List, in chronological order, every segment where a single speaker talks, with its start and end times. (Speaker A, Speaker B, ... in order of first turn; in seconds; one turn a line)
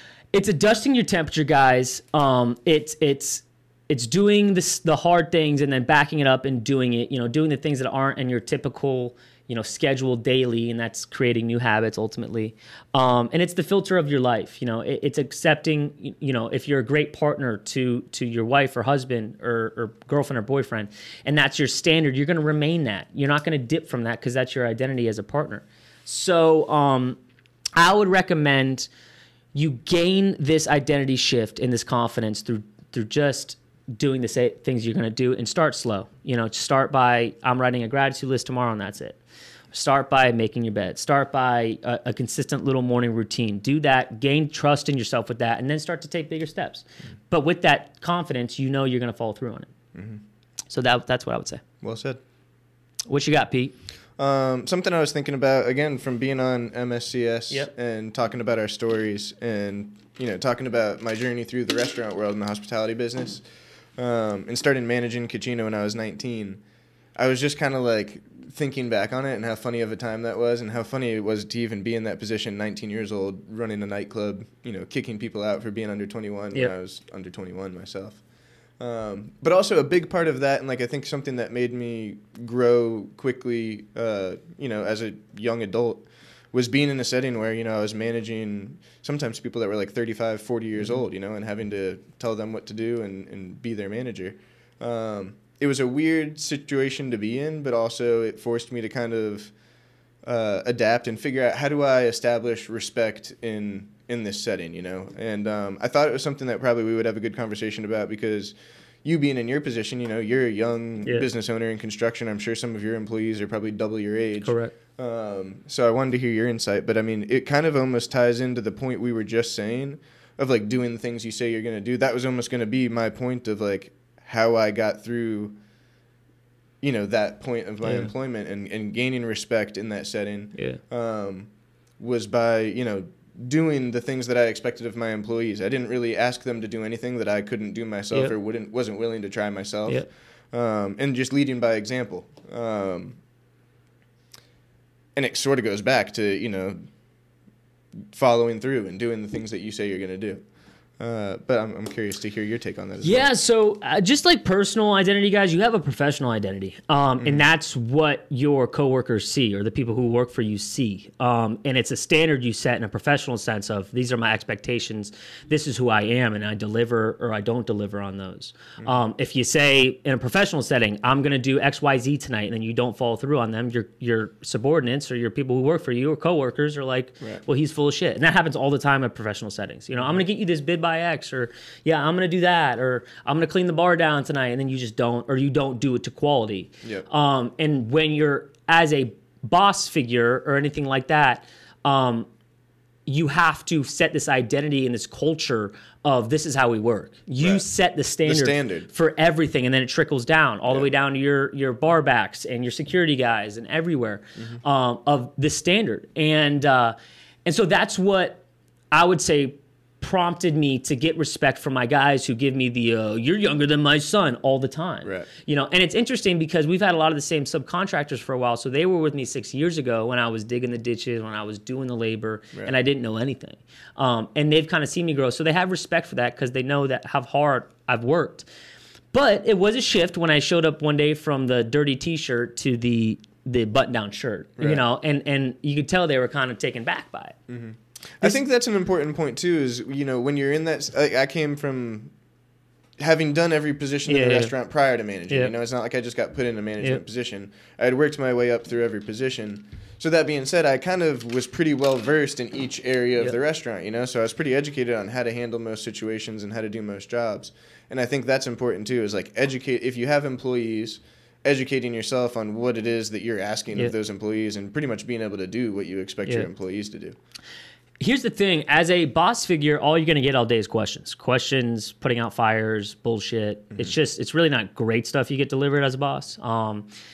Speaker A: 0.3-27.2
Speaker A: 27.8-28.9
Speaker A: 29.5-39.2
Speaker A: 39.7-49.7
Speaker B: 49.9-50.2
Speaker A: 50.7-51.6
Speaker B: 51.8-52.2
Speaker A: 53.1-53.8
Speaker B: 54.2-63.4
Speaker B: 64.0-66.6
Speaker B: 67.2-78.2
Speaker B: 78.8-99.5
Speaker B: 100.2-125.5
Speaker A: 114.4-114.7
Speaker B: 126.8-143.2
Speaker A: 127.8-128.1
Speaker A: 130.6-130.8
Speaker B: 145.2-146.8
Speaker B: 148.1-150.4
Speaker B: 151.0-153.3
Speaker A: 153.0-192.3
Speaker A: 193.1-206.9
Speaker B: 197.4-197.7
Speaker B: 198.2-198.9
Speaker A: 207.5-208.4
Speaker A: 208.9-228.4
Speaker B: 215.0-215.3
Speaker A: 229.1-237.4
Speaker B: 237.5-242.1
Speaker B: 243.0-267.2
Speaker A: 244.1-244.5
Speaker A: 268.0-276.9